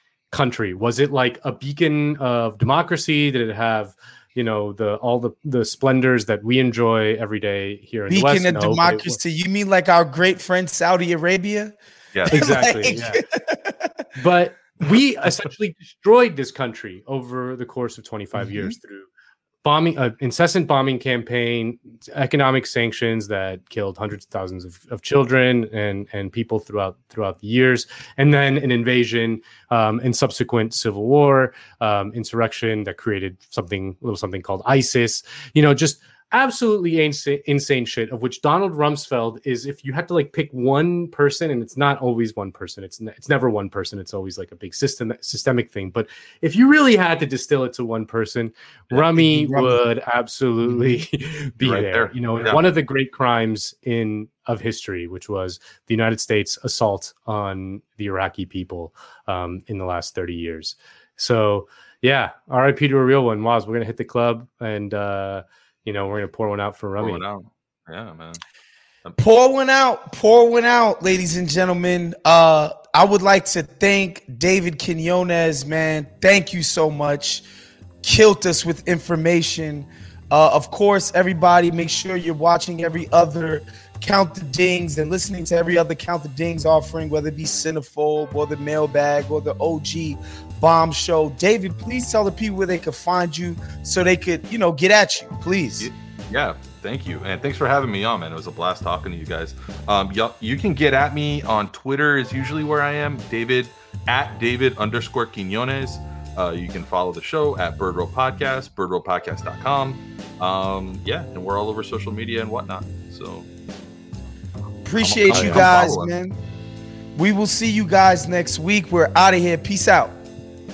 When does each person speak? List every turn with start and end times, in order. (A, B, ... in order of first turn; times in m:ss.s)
0:00.3-0:09.2 A
0:08.1-0:14.0 B
0:12.1-0:12.9 C
0:12.3-0:13.2 A
0:14.2-0:19.1 A
0:18.4-0:18.7 B
0:19.6-1:07.2 A
0:49.1-0:49.8 B
0:51.6-0:52.6 C
1:07.0-1:08.4 C
1:09.2-1:17.4 B
1:18.0-1:35.9 B
1:35.8-1:53.5 C
1:54.8-1:56.4 B
1:55.0-1:56.1 C
1:55.3-1:55.9 A
1:57.2-2:00.2 B